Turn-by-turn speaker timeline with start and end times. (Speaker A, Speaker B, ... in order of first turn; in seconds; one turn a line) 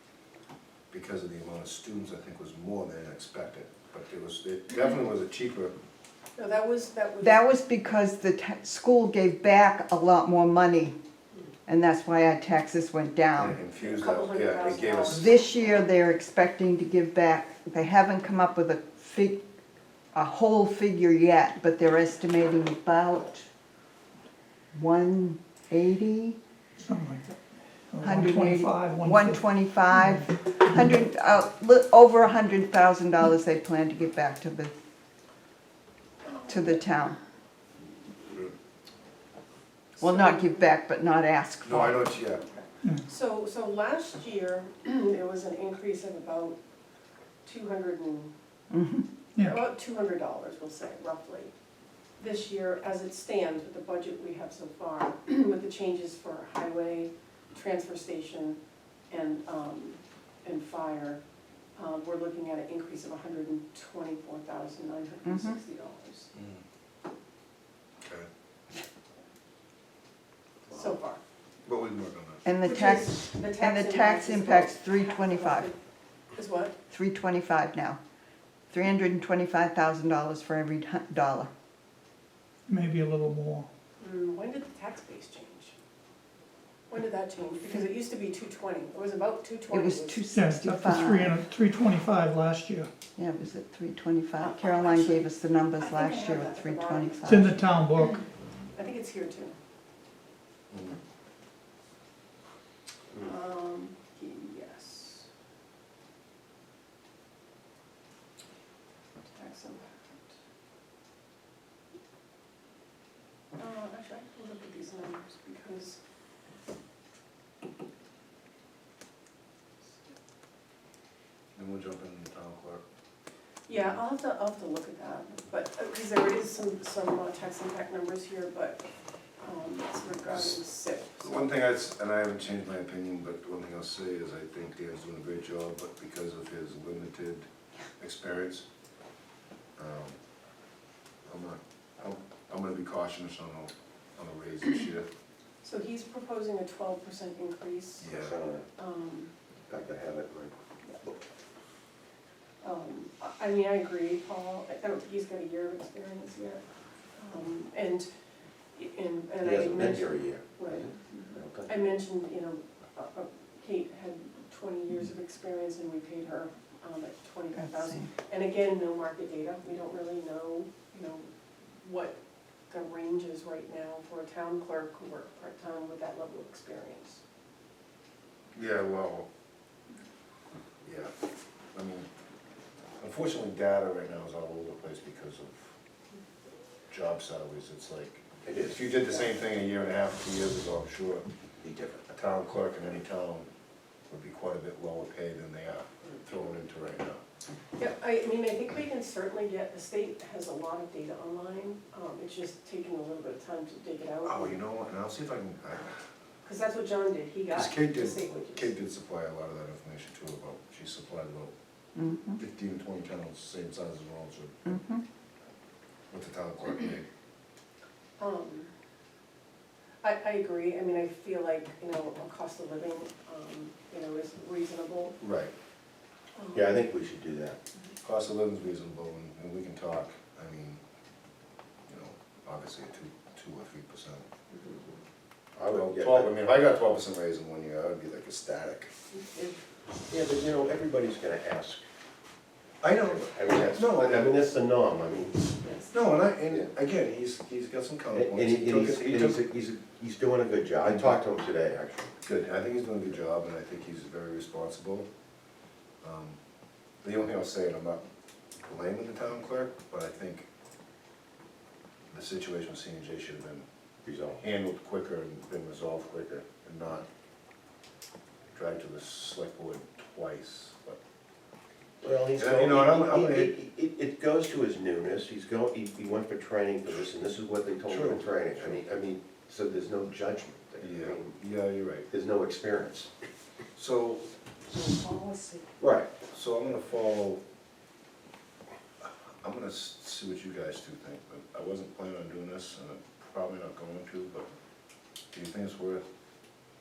Speaker A: 0.9-5.7
Speaker B: 6.3-7.4
Speaker C: 7.2-10.9
Speaker C: 11.7-13.6
Speaker A: 13.4-15.3
Speaker B: 13.8-15.4
Speaker C: 15.1-19.4
Speaker C: 20.1-23.5
Speaker C: 24.7-26.4
Speaker D: 26.8-27.4
Speaker D: 27.9-30.3
Speaker C: 28.0-34.7
Speaker B: 36.2-36.8
Speaker C: 36.4-37.2
Speaker B: 40.0-40.7
Speaker C: 40.0-42.1
Speaker A: 41.6-42.4
Speaker B: 43.0-46.6
Speaker B: 47.4-48.3
Speaker C: 48.7-49.1
Speaker B: 49.4-51.5
Speaker B: 52.2-58.6
Speaker B: 59.1-61.2
Speaker B: 61.8-66.3
Speaker C: 65.2-65.6
Speaker A: 66.3-66.6
Speaker A: 68.0-68.3
Speaker B: 70.7-71.2
Speaker A: 71.6-72.4
Speaker C: 72.4-75.7
Speaker B: 72.6-75.8
Speaker B: 76.3-76.7
Speaker C: 76.9-78.0
Speaker C: 78.7-81.5
Speaker D: 82.7-83.7
Speaker B: 84.0-85.7
Speaker B: 86.9-90.2
Speaker C: 89.7-91.4
Speaker D: 90.3-92.9
Speaker C: 93.2-97.5
Speaker B: 94.4-98.2
Speaker D: 97.2-98.2
Speaker B: 98.7-99.5
Speaker A: 100.7-101.0
Speaker B: 103.2-105.3
Speaker B: 109.2-110.3
Speaker B: 113.5-116.0
Speaker A: 121.5-122.8
Speaker B: 123.7-128.8
Speaker B: 129.4-131.5
Speaker A: 131.2-137.5
Speaker A: 138.0-138.7
Speaker A: 139.8-140.2
Speaker A: 141.2-145.1
Speaker B: 145.6-148.1
Speaker A: 148.0-148.4
Speaker E: 148.1-148.7
Speaker B: 148.7-149.3
Speaker E: 149.7-150.5
Speaker B: 152.6-156.6
Speaker B: 157.2-158.1
Speaker B: 158.7-171.3
Speaker E: 159.4-161.7
Speaker C: 167.6-168.1
Speaker B: 171.8-172.2
Speaker B: 172.7-177.2
Speaker A: 178.5-179.3
Speaker A: 180.8-181.1
Speaker A: 181.7-182.1
Speaker A: 183.0-185.8
Speaker A: 186.9-191.2
Speaker E: 188.4-188.9
Speaker E: 191.6-192.1
Speaker A: 192.1-193.5
Speaker A: 194.1-197.2
Speaker B: 197.8-204.6
Speaker A: 204.2-205.9
Speaker B: 206.4-208.7
Speaker A: 207.5-211.5
Speaker C: 211.9-212.4
Speaker A: 212.4-214.8
Speaker C: 214.7-215.0
Speaker A: 216.1-217.0
Speaker B: 218.2-218.7
Speaker B: 220.0-225.2
Speaker A: 225.2-225.5
Speaker B: 226.3-226.8
Speaker E: 226.5-227.6
Speaker A: 228.0-230.8
Speaker A: 231.9-234.2
Speaker E: 235.6-236.4
Speaker A: 235.6-238.9
Speaker E: 239.2-241.8
Speaker A: 242.8-244.4
Speaker E: 242.8-245.8
Speaker A: 245.9-249.4
Speaker E: 248.1-252.2
Speaker A: 250.8-251.2
Speaker A: 252.2-255.1
Speaker A: 256.0-256.4
Speaker A: 257.0-258.1
Speaker A: 258.6-260.5
Speaker A: 262.1-263.6
Speaker E: 264.1-264.4
Speaker A: 264.4-267.1
Speaker A: 268.5-271.0
Speaker E: 272.0-281.3
Speaker A: 272.3-273.5
Speaker A: 277.9-278.9
Speaker A: 280.8-282.1
Speaker E: 282.1-283.1
Speaker A: 283.7-284.3
Speaker E: 285.8-286.1
Speaker A: 286.3-287.4
Speaker A: 289.0-294.5
Speaker A: 295.3-296.1